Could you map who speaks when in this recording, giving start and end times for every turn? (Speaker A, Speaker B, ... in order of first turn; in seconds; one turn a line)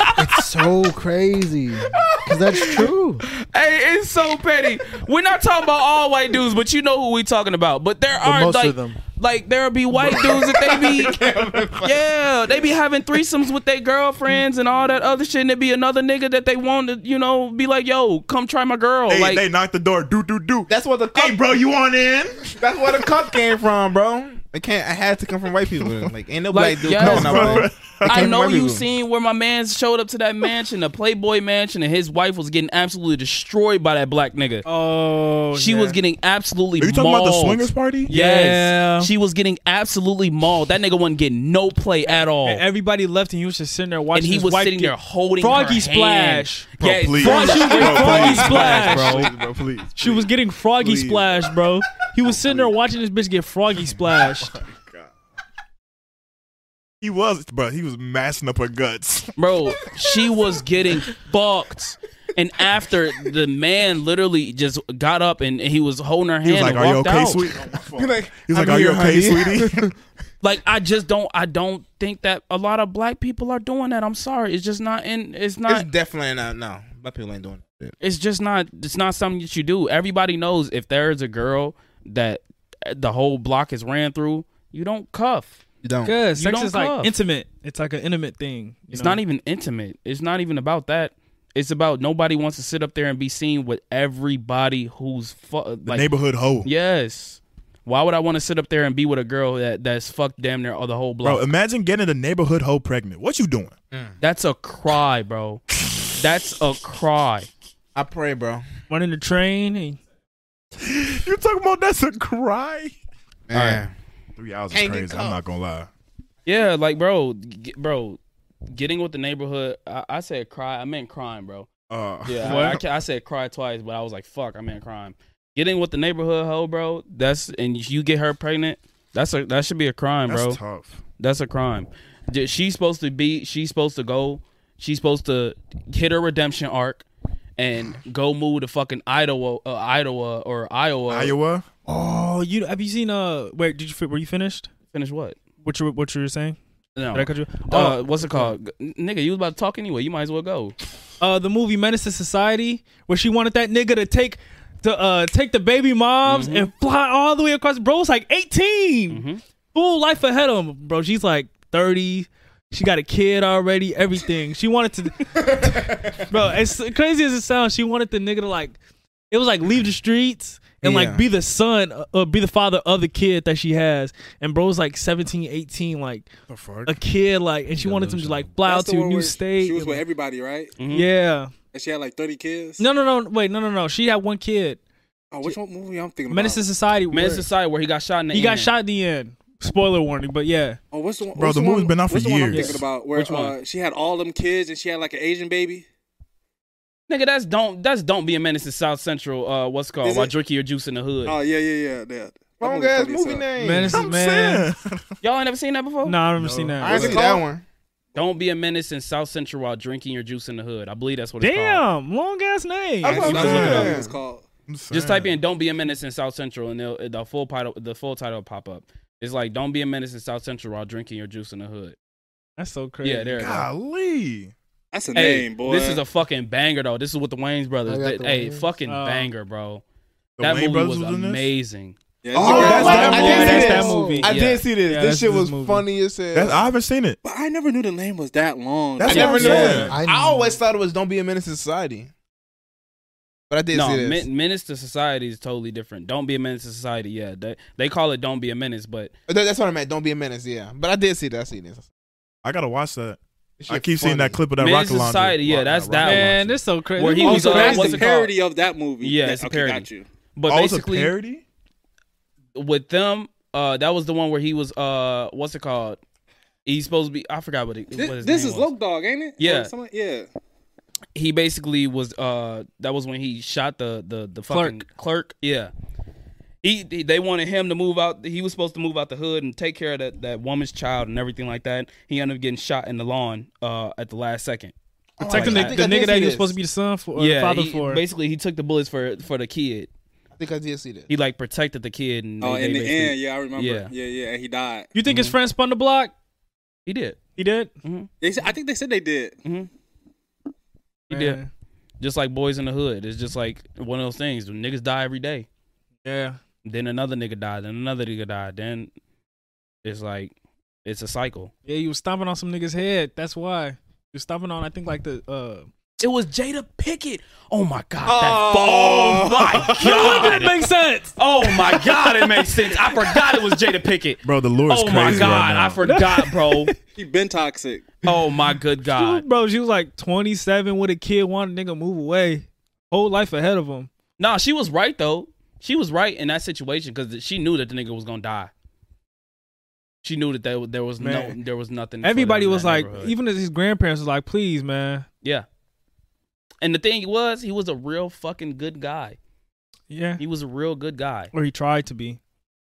Speaker A: 0.2-3.2
Speaker B: 3.3-11.2
Speaker A: 8.2-9.0
Speaker C: 9.9-12.0
Speaker B: 11.8-19.4
Speaker D: 19.1-22.6
Speaker C: 20.7-21.5
Speaker C: 22.6-28.8
Speaker B: 26.5-34.6
Speaker D: 26.9-28.3
Speaker E: 34.6-36.0
Speaker B: 35.5-42.6
Speaker D: 36.8-38.1
Speaker E: 38.1-39.1
Speaker E: 42.1-49.3
Speaker B: 44.1-49.3
Speaker D: 46.8-51.4
Speaker E: 50.0-54.6
Speaker D: 52.0-52.7
Speaker D: 53.9-55.1
Speaker D: 57.0-59.3
Speaker B: 59.4-67.5
Speaker D: 66.4-69.9
Speaker C: 67.9-69.9
Speaker B: 70.4-75.9
Speaker C: 75.7-77.9
Speaker B: 78.0-85.6
Speaker C: 85.8-86.1
Speaker E: 86.0-89.2
Speaker B: 86.3-87.1
Speaker B: 88.9-96.1
Speaker D: 95.8-96.7
Speaker B: 96.6-101.5
Speaker D: 101.2-103.7
Speaker B: 104.2-105.6
Speaker B: 106.2-107.5
Speaker C: 107.9-108.6
Speaker E: 108.9-110.0
Speaker D: 110.8-112.9
Speaker C: 113.5-113.9
Speaker B: 113.5-113.8
Speaker D: 114.4-115.9
Speaker C: 114.7-115.4
Speaker B: 116.4-118.2
Speaker B: 118.7-121.7
Speaker D: 121.9-122.8
Speaker B: 122.2-130.6
Speaker E: 122.4-122.8
Speaker D: 130.3-131.0
Speaker B: 131.2-137.0
Speaker B: 137.6-141.3
Speaker D: 141.1-141.7
Speaker E: 141.8-144.7
Speaker B: 144.9-145.4
Speaker E: 145.6-146.6
Speaker B: 146.9-150.8
Speaker E: 147.1-148.5
Speaker E: 151.2-168.8
Speaker B: 156.2-156.7
Speaker B: 159.1-159.4
Speaker C: 165.5-166.1
Speaker E: 169.3-176.3
Speaker C: 170.8-171.2
Speaker D: 176.5-177.0
Speaker E: 176.8-180.0
Speaker D: 177.8-178.3
Speaker A: 177.9-178.3
Speaker F: 178.6-180.7
Speaker B: 180.8-181.1
Speaker E: 180.9-181.5
Speaker F: 181.7-182.8
Speaker E: 182.8-184.8
Speaker F: 185.3-186.6
Speaker E: 186.3-187.5
Speaker B: 187.1-188.7
Speaker E: 188.3-190.8
Speaker F: 190.9-195.8
Speaker D: 191.3-192.8
Speaker E: 192.5-192.8
Speaker B: 193.1-193.6
Speaker B: 197.1-201.3
Speaker F: 200.0-200.3
Speaker F: 201.2-203.5
Speaker C: 202.6-204.1
Speaker E: 203.6-204.7
Speaker D: 203.8-205.1
Speaker B: 205.2-206.2
Speaker E: 206.0-207.2
Speaker D: 206.3-207.1
Speaker C: 206.8-207.6
Speaker F: 206.8-207.4
Speaker B: 208.1-211.8
Speaker E: 211.4-213.9
Speaker C: 213.0-214.2
Speaker F: 213.0-214.4
Speaker D: 213.2-213.9
Speaker D: 214.7-215.4
Speaker B: 214.9-222.0
Speaker E: 222.6-223.7
Speaker B: 223.0-223.7
Speaker D: 223.4-224.5
Speaker F: 224.9-226.0
Speaker B: 225.1-229.8
Speaker A: 227.8-228.7
Speaker E: 228.9-229.3
Speaker D: 230.4-231.5
Speaker B: 230.4-232.0
Speaker F: 232.2-233.8
Speaker D: 232.3-233.7
Speaker C: 232.3-236.7
Speaker E: 232.4-234.3
Speaker A: 232.8-234.2
Speaker B: 233.0-233.7
Speaker B: 234.2-234.6
Speaker E: 234.8-235.8
Speaker D: 236.3-237.2
Speaker F: 237.2-239.9
Speaker D: 239.0-240.0
Speaker C: 239.0-242.1
Speaker B: 239.1-239.6
Speaker E: 239.2-239.9
Speaker A: 239.9-240.6
Speaker C: 243.5-244.3
Speaker B: 243.7-249.1
Speaker C: 249.3-251.8
Speaker D: 252.4-253.2
Speaker C: 253.6-254.4
Speaker D: 253.7-256.6
Speaker B: 254.6-258.3
Speaker E: 256.0-258.1
Speaker F: 257.2-260.0
Speaker B: 259.0-261.1
Speaker D: 260.5-261.4
Speaker B: 262.5-266.0
Speaker B: 266.6-268.7
Speaker F: 267.9-270.3
Speaker B: 269.4-269.7
Speaker B: 271.1-275.7
Speaker E: 274.5-274.8
Speaker B: 276.6-284.7
Speaker C: 285.2-286.6
Speaker E: 285.2-288.0
Speaker B: 285.2-285.8
Speaker B: 287.1-289.9
Speaker C: 290.4-291.1
Speaker B: 291.1-293.9
Speaker F: 292.4-294.9
Speaker E: 294.9-296.1
Speaker B: 295.0-295.4
Speaker B: 296.9-297.2
Speaker E: 297.4-297.7
Speaker B: 297.8-298.1
Speaker F: 298.2-299.4
Speaker B: 299.4-299.7
Speaker B: 301.1-301.4
Speaker E: 301.1-301.5
Speaker B: 302.0-305.5
Speaker E: 306.0-306.4
Speaker B: 306.6-308.9
Speaker B: 309.8-310.3
Speaker B: 310.8-311.5
Speaker E: 311.6-315.7
Speaker B: 316.0-320.6
Speaker F: 318.0-320.3
Speaker E: 319.8-322.5
Speaker B: 321.1-326.7
Speaker D: 324.2-325.8
Speaker E: 325.1-326.7
Speaker F: 326.9-327.9
Speaker B: 328.0-329.2
Speaker E: 328.9-333.9
Speaker B: 334.2-338.5
Speaker B: 340.0-343.1
Speaker E: 341.0-341.4
Speaker E: 342.0-345.1
Speaker B: 346.6-349.2
Speaker E: 349.9-350.2
Speaker B: 350.2-351.3
Speaker E: 351.3-352.2